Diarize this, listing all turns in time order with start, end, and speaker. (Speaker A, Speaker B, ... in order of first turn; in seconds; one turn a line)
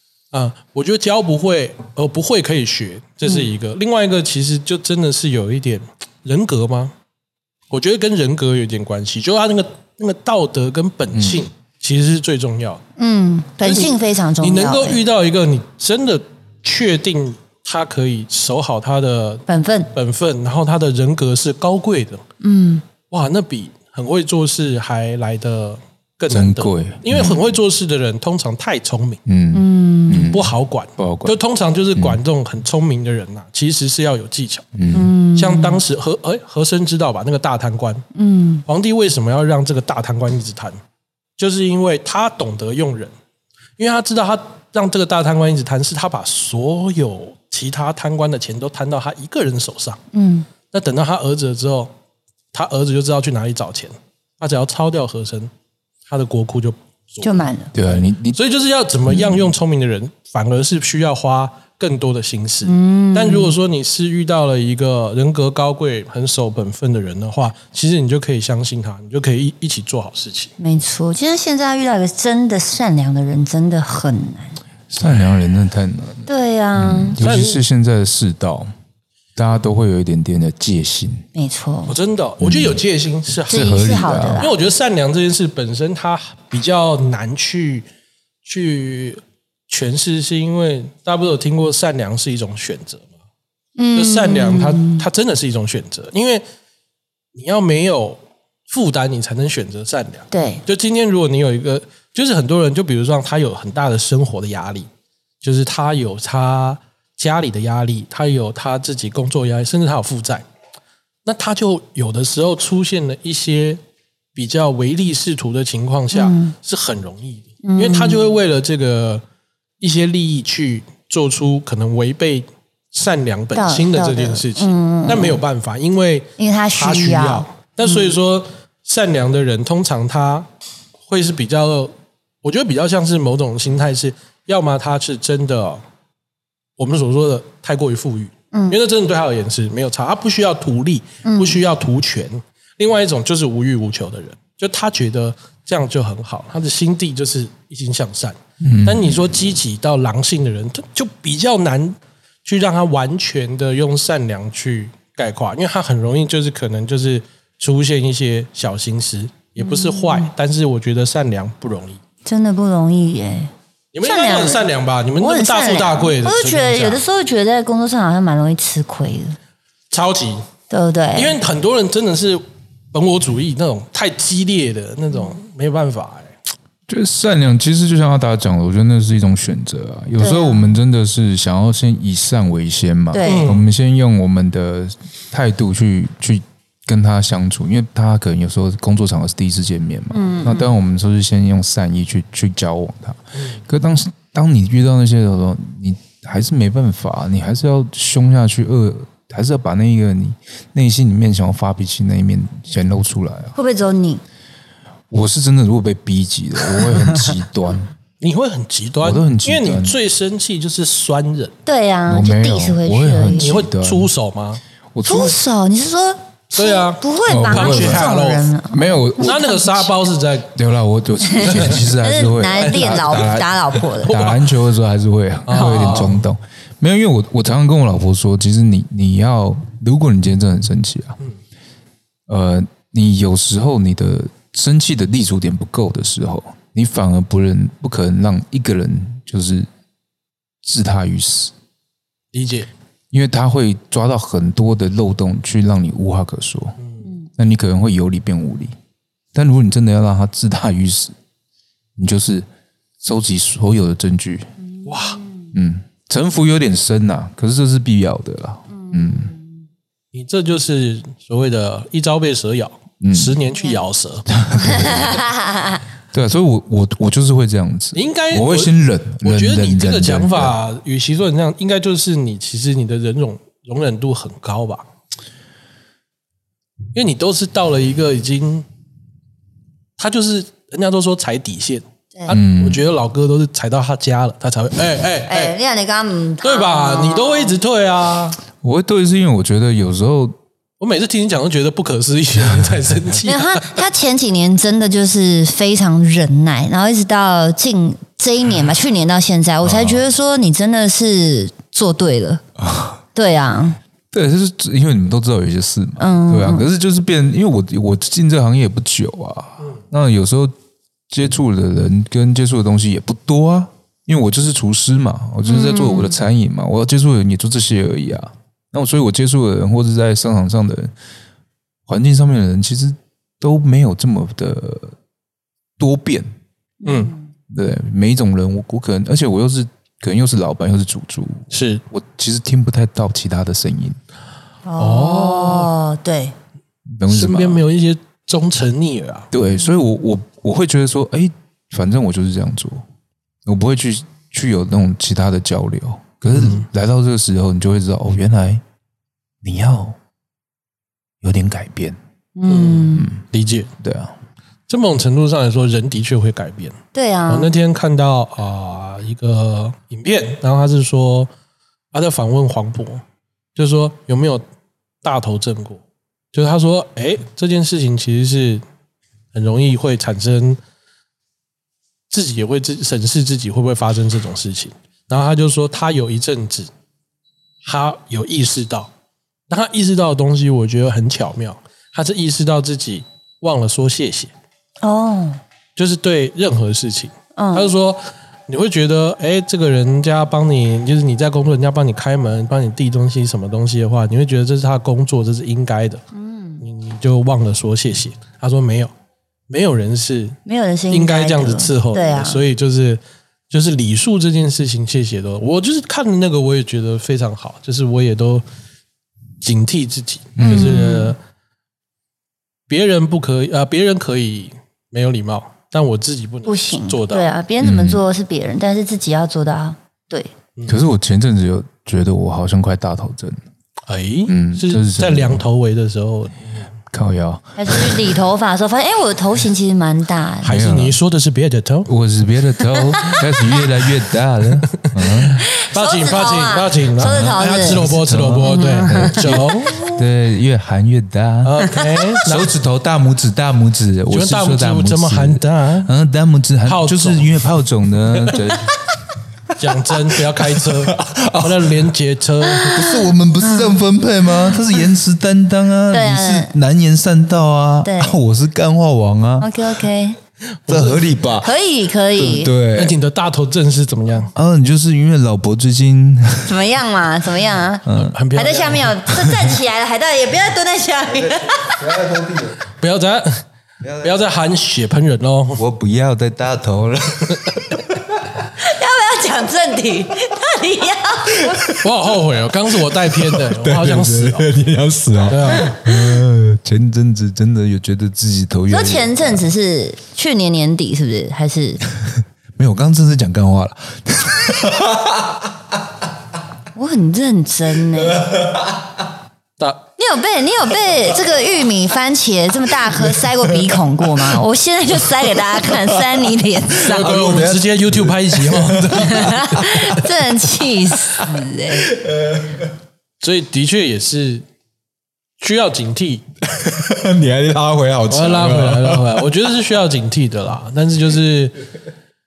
Speaker A: 0.3-6.9
Speaker A: 7.7-12.8
Speaker B: 11.1-11.4
Speaker C: 13.0-15.0
Speaker A: 13.6-22.2
Speaker C: 19.5-19.9
Speaker C: 22.4-22.8
Speaker A: 23.1-29.2
Speaker B: 26.3-27.5
Speaker B: 29.2-31.4
Speaker C: 29.5-30.3
Speaker A: 30.1-34.7
Speaker B: 34.7-35.1
Speaker C: 34.9-35.8
Speaker A: 35.3-38.0
Speaker C: 38.1-38.6
Speaker A: 38.6-40.8
Speaker A: 41.4-43.1
Speaker A: 43.8-50.0
Speaker C: 50.1-50.5
Speaker A: 50.7-51.9
Speaker A: 52.5-55.5
Speaker A: 56.1-70.5
Speaker C: 57.2-57.7
Speaker B: 57.7-58.4
Speaker B: 59.1-59.5
Speaker C: 62.6-63.5
Speaker C: 70.6-74.6
Speaker B: 74.9-78.7
Speaker C: 76.3-77.2
Speaker A: 77.2-77.6
Speaker B: 79.3-81.2
Speaker C: 81.3-81.9
Speaker A: 81.9-83.8
Speaker B: 82.4-82.8
Speaker B: 83.5-84.5
Speaker C: 83.5-84.5
Speaker A: 84.3-87.9
Speaker A: 88.4-93.1
Speaker C: 93.8-95.0
Speaker A: 93.9-96.4
Speaker A: 97.3-104.9
Speaker C: 100.3-100.6
Speaker A: 105.4-110.4
Speaker A: 111.2-113.8
Speaker A: 114.3-119.2
Speaker C: 116.1-116.5
Speaker C: 117.6-118.2
Speaker A: 119.8-130.5
Speaker C: 123.5-125.4
Speaker C: 126.4-128.1
Speaker A: 131.1-135.8
Speaker A: 136.8-162.0
Speaker C: 138.5-138.8
Speaker C: 141.2-141.6
Speaker B: 148.6-149.2
Speaker C: 159.6-160.3
Speaker C: 162.2-163.5
Speaker A: 163.9-167.0
Speaker C: 164.0-164.6
Speaker C: 165.2-169.4
Speaker A: 169.9-170.5
Speaker C: 170.7-171.3
Speaker A: 171.1-176.3
Speaker B: 176.9-203.5
Speaker C: 180.2-180.7
Speaker C: 183.1-183.5
Speaker A: 183.2-183.6
Speaker C: 190.1-190.7
Speaker C: 203.6-204.2
Speaker B: 205.1-207.9
Speaker A: 208.2-211.5
Speaker B: 209.0-209.9
Speaker C: 211.7-213.6
Speaker B: 212.1-214.1
Speaker A: 213.4-214.6
Speaker B: 214.9-215.4
Speaker C: 215.0-219.9
Speaker A: 216.5-218.5
Speaker B: 217.2-218.1
Speaker B: 218.7-219.4
Speaker A: 219.2-220.5
Speaker B: 220.5-231.2
Speaker C: 221.3-224.2
Speaker A: 221.4-221.8
Speaker A: 222.5-223.3
Speaker A: 224.0-224.4
Speaker A: 225.5-226.2
Speaker C: 225.5-226.1
Speaker B: 232.3-239.7
Speaker B: 240.6-241.5
Speaker A: 242.3-242.7
Speaker B: 243.1-246.8
Speaker A: 246.8-247.1
Speaker B: 247.4-248.7
Speaker B: 249.3-251.1
Speaker B: 252.0-252.5
Speaker B: 253.0-254.5
Speaker C: 254.8-255.3
Speaker A: 254.8-255.2
Speaker B: 255.5-259.3
Speaker C: 258.8-259.5
Speaker A: 260.1-264.3
Speaker B: 263.0-263.4
Speaker C: 263.6-263.8
Speaker B: 264.3-265.2
Speaker C: 264.6-265.8
Speaker B: 266.1-270.5
Speaker A: 267.9-274.9
Speaker A: 276.9-278.6
Speaker A: 280.0-285.5
Speaker B: 282.3-282.8
Speaker C: 285.3-287.6
Speaker A: 286.4-288.4
Speaker B: 288.6-290.4
Speaker A: 290.8-293.7
Speaker C: 293.2-302.4
Speaker B: 299.6-300.0
Speaker B: 302.6-303.0
Speaker C: 303.1-303.8
Speaker B: 304.1-310.5
Speaker C: 306.0-306.6
Speaker B: 311.1-320.9
Speaker C: 315.4-316.1
Speaker B: 321.9-324.9
Speaker B: 325.8-326.3
Speaker C: 326.8-327.3
Speaker A: 326.8-327.1
Speaker B: 327.5-334.0
Speaker A: 331.5-331.8
Speaker C: 334.6-336.3
Speaker A: 334.8-335.7
Speaker B: 337.0-337.6
Speaker A: 337.1-339.3
Speaker B: 339.3-342.8
Speaker B: 343.4-348.6
Speaker A: 346.3-346.7
Speaker B: 349.4-350.0
Speaker B: 351.2-352.0
Speaker C: 352.4-353.1
Speaker A: 352.5-353.7
Speaker B: 352.9-353.2
Speaker B: 353.8-354.1
Speaker A: 354.7-356.8
Speaker C: 356.9-357.5
Speaker A: 357.3-361.3
Speaker A: 361.9-363.0
Speaker A: 363.6-364.4
Speaker A: 365.0-365.8
Speaker A: 366.3-368.6
Speaker A: 369.3-370.6
Speaker A: 372.1-376.7
Speaker A: 377.6-378.9
Speaker A: 379.5-384.3
Speaker C: 384.8-385.4
Speaker A: 385.8-396.0
Speaker C: 387.4-387.7
Speaker C: 396.1-396.6
Speaker A: 396.6-398.9
Speaker A: 399.5-400.4
Speaker C: 400.4-402.4
Speaker A: 400.9-408.4
Speaker A: 409.4-411.2
Speaker B: 410.4-410.8
Speaker C: 410.4-411.1
Speaker A: 412.7-417.3
Speaker C: 416.4-420.3
Speaker B: 417.6-418.0
Speaker B: 420.7-423.4
Speaker A: 423.9-426.7
Speaker B: 424.3-425.4
Speaker B: 426.9-428.1
Speaker C: 427.6-430.6
Speaker A: 430.4-431.9
Speaker B: 430.4-431.0
Speaker B: 431.9-435.4
Speaker C: 432.7-433.6
Speaker A: 434.7-440.0
Speaker C: 435.5-437.8
Speaker B: 437.0-441.6
Speaker C: 438.4-439.9
Speaker A: 441.4-442.5
Speaker B: 442.2-448.7
Speaker A: 444.1-445.9
Speaker A: 446.6-447.3
Speaker A: 448.1-448.4
Speaker A: 449.6-452.8
Speaker B: 450.1-451.9
Speaker C: 452.5-453.8
Speaker B: 452.6-459.5
Speaker C: 454.4-454.6
Speaker C: 455.9-456.5
Speaker C: 457.8-458.1
Speaker C: 459.4-460.2
Speaker A: 460.7-461.0
Speaker B: 460.7-461.5
Speaker C: 461.4-462.5
Speaker B: 462.1-462.9
Speaker A: 462.7-464.3
Speaker B: 464.3-466.6
Speaker C: 466.4-471.9
Speaker B: 467.9-468.2
Speaker A: 467.9-469.0
Speaker B: 469.1-469.6
Speaker B: 471.1-472.6
Speaker A: 472.8-473.4
Speaker B: 473.8-474.2
Speaker A: 474.0-475.6
Speaker B: 475.6-478.0
Speaker C: 478.6-481.6
Speaker B: 481.4-481.8
Speaker A: 481.8-484.5
Speaker B: 483.1-489.4
Speaker A: 485.3-485.7
Speaker C: 485.7-486.1
Speaker C: 488.7-491.8
Speaker B: 492.6-495.5
Speaker C: 496.7-498.3
Speaker B: 498.3-498.6
Speaker C: 500.0-507.2
Speaker B: 505.0-506.2
Speaker B: 506.8-510.1
Speaker A: 506.8-509.8
Speaker C: 508.9-511.9
Speaker B: 511.2-512.7
Speaker A: 513.2-514.4
Speaker A: 515.4-516.2
Speaker B: 516.4-519.3
Speaker A: 518.1-521.5